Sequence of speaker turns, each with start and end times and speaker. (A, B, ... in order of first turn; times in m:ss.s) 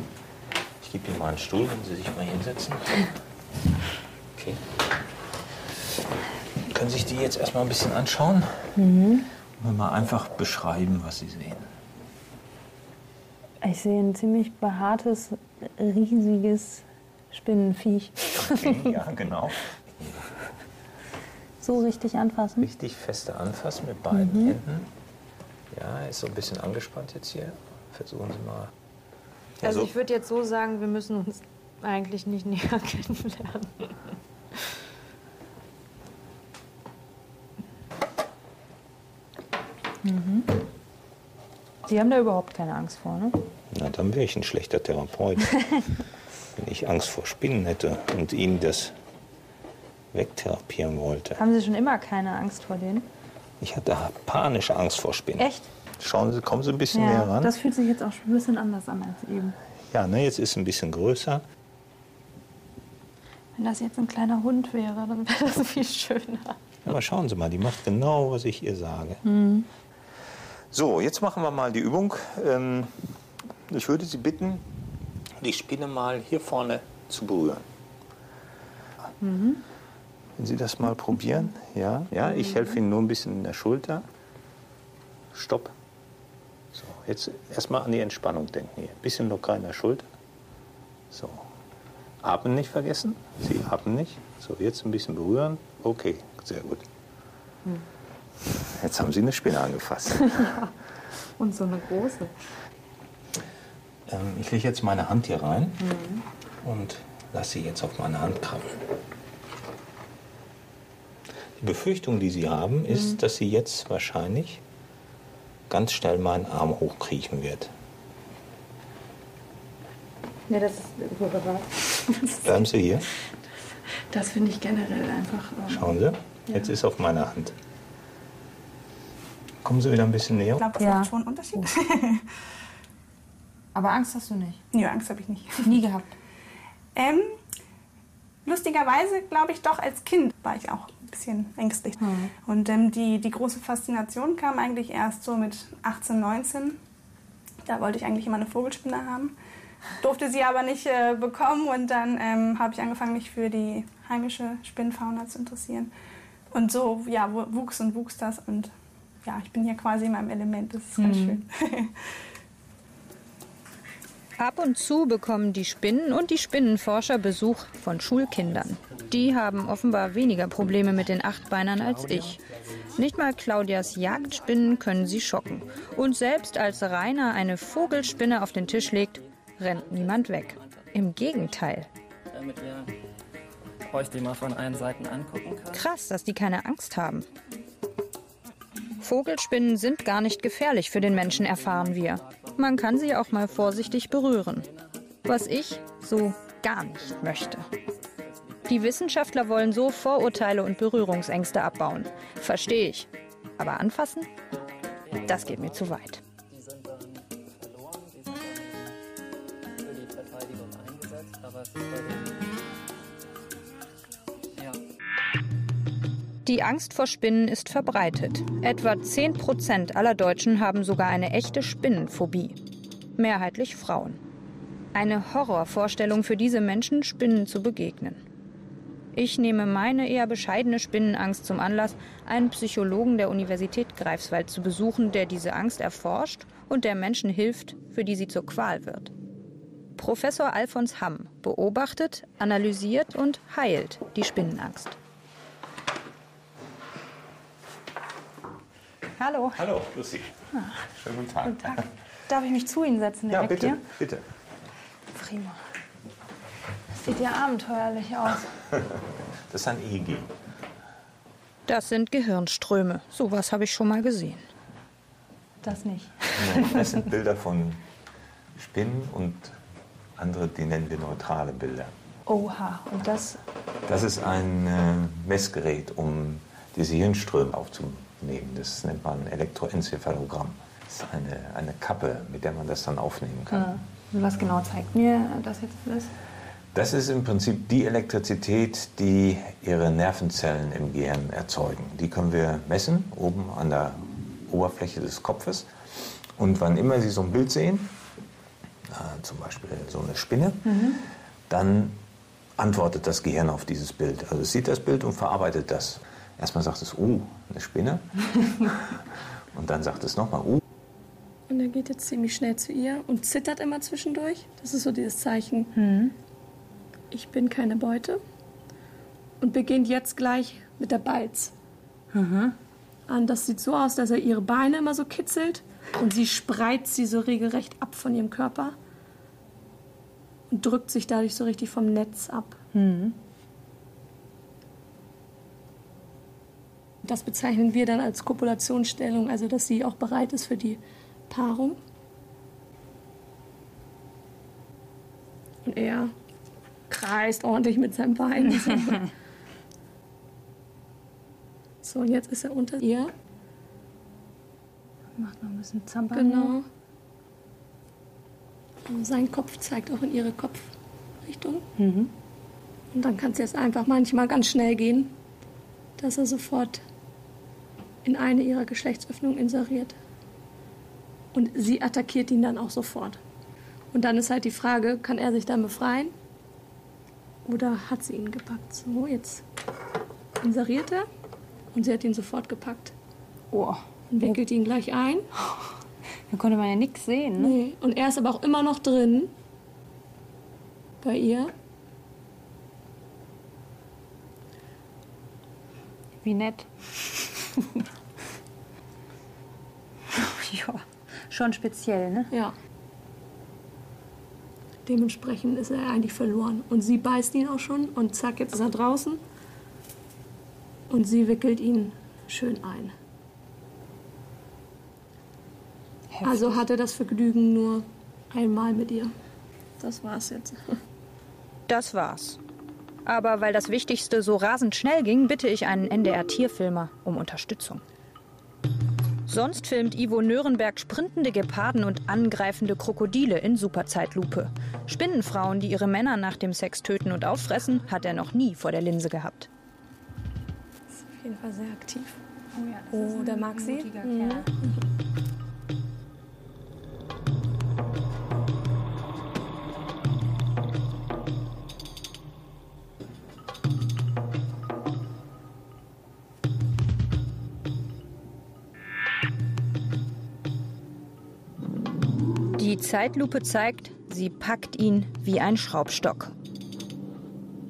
0:00.8-0:03.0 A
0:04.3-0:04.6 A
0:06.6-0:08.8 A
0:08.8-0:09.3 B
0:09.6-0:11.7 A
0:13.6-0:18.9 B
0:18.3-0:20.2 A
0:21.6-0:22.7 B
0:22.6-0:24.9 A
0:24.1-0:24.6 B
0:25.7-0:28.7 A
0:29.6-0:29.9 A
0:29.6-0:34.1 B
0:40.0-0:40.5 B
0:41.8-0:43.4 B
0:43.7-0:45.6 A
0:46.6-0:49.0 A
0:50.1-0:51.4 A
0:51.4-0:53.1 B
0:53.6-0:57.5 A
0:55.4-0:55.7 B
0:56.9-0:59.6 B
0:59.9-1:01.4 A
1:03.6-1:06.6 B
1:06.8-1:09.2 A
1:09.2-1:09.7 B
1:10.7-1:13.2 A
1:13.7-1:14.6 A
1:15.4-1:17.7 A
1:19.2-1:19.6 B
1:20.4-1:24.0 A
1:22.4-1:22.7 B
1:25.3-1:25.7 A
1:26.7-1:30.1 A
1:31.1-1:31.5 A
1:32.2-1:36.9 A
1:38.7-1:40.5 A
1:40.2-1:40.7 B
1:41.4-1:42.3 B
1:44.1-1:45.8 A
1:45.8-1:46.2 B
1:46.6-1:48.9 A
1:51.6-1:54.6 A
1:55.7-1:57.7 A
2:00.5-2:02.6 B
2:02.4-2:03.1 A
2:04.1-2:05.9 B
2:05.7-2:07.6 A
2:09.6-2:10.7 A
2:10.6-2:12.3 C
2:10.8-2:11.6 B
2:13.7-2:14.6 B
2:14.7-2:15.8 C
2:15.6-2:16.1 B
2:16.9-2:17.4 C
2:18.4-2:26.8 C
2:22.0-2:22.3 B
2:27.6-2:29.4 C
2:30.0-2:35.9 C
2:36.5-2:38.7 C
2:39.2-2:42.0 C
2:41.0-2:41.4 B
2:44.4-2:52.4 D
2:48.8-2:49.3 E
2:51.8-2:53.0 E
2:52.9-3:01.9 D
2:53.8-2:54.7 E
2:57.6-3:00.9 E
3:02.3-3:03.0 E
3:03.9-3:05.9 E
3:05.7-3:07.2 D
3:09.0-3:14.7 D
3:11.0-3:15.3 E
3:15.2-3:17.7 D
3:16.8-3:19.1 E
3:18.6-3:24.3 D
3:25.0-3:25.9 E
3:25.3-3:26.2 D
3:26.5-3:29.0 E
3:29.8-3:32.6 E
3:34.5-3:34.8 E
3:36.4-3:42.6 D
3:43.2-3:44.2 D
3:44.9-3:48.2 D
3:49.1-3:59.1 D
4:00.0-4:05.0 D
4:09.2-4:09.6 B
4:09.5-4:11.8 A
4:10.5-4:10.8 B
4:11.4-4:13.8 B
4:13.3-4:14.2 A
4:15.1-4:15.6 B
4:17.0-4:18.5 B
4:18.7-4:19.0 A
4:19.5-4:20.3 A
4:21.7-4:24.4 D
4:25.6-4:27.0 B
4:26.4-4:27.8 A
4:28.5-4:29.6 A
4:30.2-4:31.9 A
4:32.3-4:33.4 B
4:33.8-4:43.7 A
4:43.5-4:46.1 B
4:46.7-4:55.7 A
4:56.4-4:57.9 A
4:58.9-5:00.9 A
5:00.7-5:01.0 B
5:01.5-5:02.0 A
5:02.6-5:10.6 A
5:11.5-5:15.7 F
5:15.8-5:16.1 B
5:17.1-5:18.2 F
5:19.4-5:21.5 F
5:22.1-5:22.5 B
5:23.1-5:28.7 F
5:30.5-5:32.6 F
5:32.7-5:33.2 B
5:37.0-5:41.8 F
5:45.6-5:46.1 F
5:46.9-5:49.1 F
5:51.8-5:53.1 F
5:55.2-5:56.6 B
5:56.1-5:56.6 F
5:58.9-6:00.7 F
6:01.2-6:01.6 F
6:01.8-6:02.1 B
6:02.9-6:05.1 F
6:06.0-6:06.8 F
6:08.0-6:09.9 F
6:11.3-6:13.2 F
6:13.9-6:16.1 F
6:17.4-6:19.4 F
6:20.4-6:21.0 F
6:21.7-6:22.9 F
6:23.5-6:24.4 B
6:24.1-6:25.3 F
6:26.3-6:27.6 B
6:27.4-6:29.3 F
6:31.0-6:31.5 F
6:36.2-6:36.7 B
6:40.1-6:42.3 B
6:44.8-6:49.2 F
6:50.9-6:52.9 F
6:56.1-6:56.6 B
6:56.2-6:59.1 F
6:59.8-7:00.8 F
7:01.7-7:02.4 D
7:03.0-7:07.8 D
7:09.3-7:19.5 D
7:20.9-7:22.2 F
7:22.6-7:24.4 B
7:22.9-7:24.8 F
7:42.6-7:46.3 D